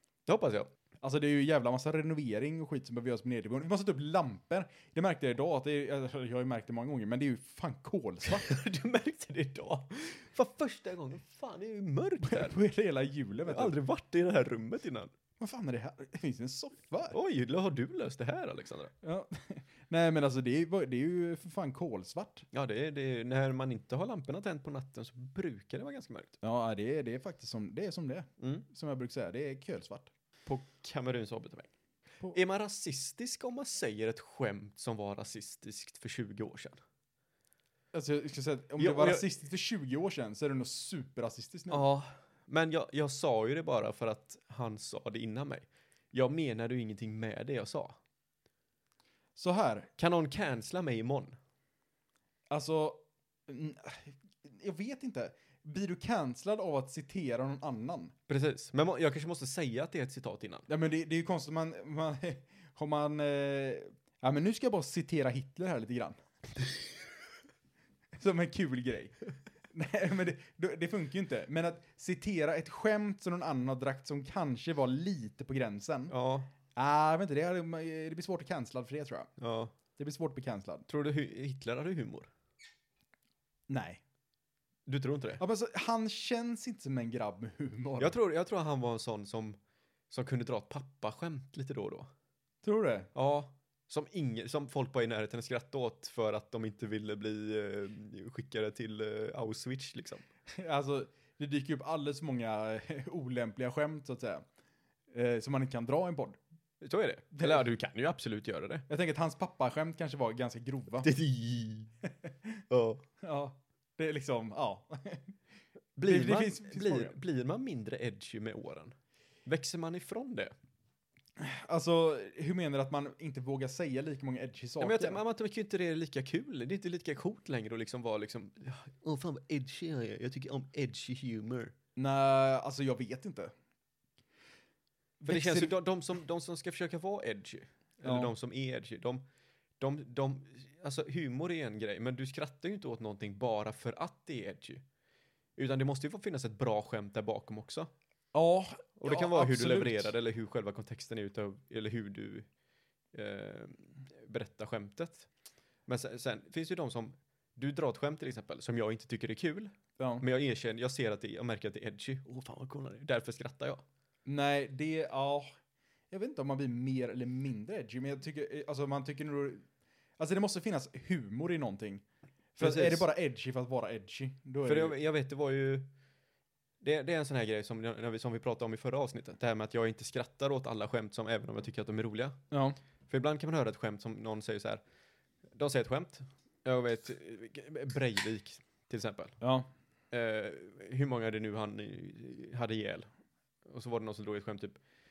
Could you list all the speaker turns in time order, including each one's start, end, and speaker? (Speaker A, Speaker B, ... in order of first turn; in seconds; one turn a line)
Speaker A: 0.3-0.7
Speaker B: 1.0-8.6
Speaker A: 8.2-12.6
Speaker B: 12.2-13.8
Speaker A: 13.5-15.1
Speaker B: 15.4-17.1
Speaker A: 17.1-18.9
Speaker B: 19.0-22.5
Speaker A: 22.5-26.4
Speaker B: 26.4-30.1
Speaker A: 28.4-28.6
Speaker A: 30.5-31.7
Speaker A: 32.3-36.8
Speaker B: 37.9-41.8
Speaker A: 38.8-39.3
Speaker A: 41.7-48.0
Speaker B: 49.4-49.9
Speaker A: 50.0-51.4
Speaker B: 52.5-58.1
Speaker A: 58.3-60.7
Speaker B: 60.7-66.2
Speaker B: 68.2-69.2
Speaker B: 69.7-76.1
Speaker A: 76.1-76.5
Speaker B: 76.8-79.3
Speaker A: 79.4-79.7
Speaker B: 80.0-80.9
Speaker A: 80.9-82.3
Speaker B: 83.7-84.0
Speaker A: 84.9-85.4
Speaker B: 85.4-88.2
Speaker A: 88.0-89.6
Speaker A: 90.1-92.1
Speaker B: 92.6-93.1
Speaker A: 93.1-100.2
Speaker B: 100.5-104.5
Speaker B: 105.1-106.4
Speaker A: 106.8-108.8
Speaker B: 107.3-107.7
Speaker B: 108.9-111.1
Speaker A: 111.0-111.9
Speaker B: 112.2-112.6
Speaker A: 112.7-113.0
Speaker B: 113.2-115.3
Speaker A: 116.0-118.9
Speaker B: 116.0-117.2
Speaker A: 119.5-120.5
Speaker B: 121.4-125.2
Speaker A: 124.8-131.7
Speaker B: 132.0-133.5
Speaker B: 135.2-135.7
Speaker A: 135.3-139.2
Speaker B: 138.0-138.3
Speaker A: 139.8-144.8
Speaker A: 145.6-147.9
Speaker B: 148.3-150.1
Speaker A: 149.0-152.5
Speaker A: 153.1-155.3
Speaker A: 155.9-163.8
Speaker B: 160.0-160.2
Speaker B: 164.3-165.5
Speaker B: 166.1-169.7
Speaker B: 170.2-172.0
Speaker B: 172.6-175.0
Speaker A: 172.6-173.1
Speaker A: 174.6-175.9
Speaker A: 176.8-182.4
Speaker B: 182.5-182.8
Speaker A: 183.1-184.8
Speaker A: 185.6-189.4
Speaker B: 189.4-189.7
Speaker A: 190.1-193.1
Speaker A: 193.7-194.8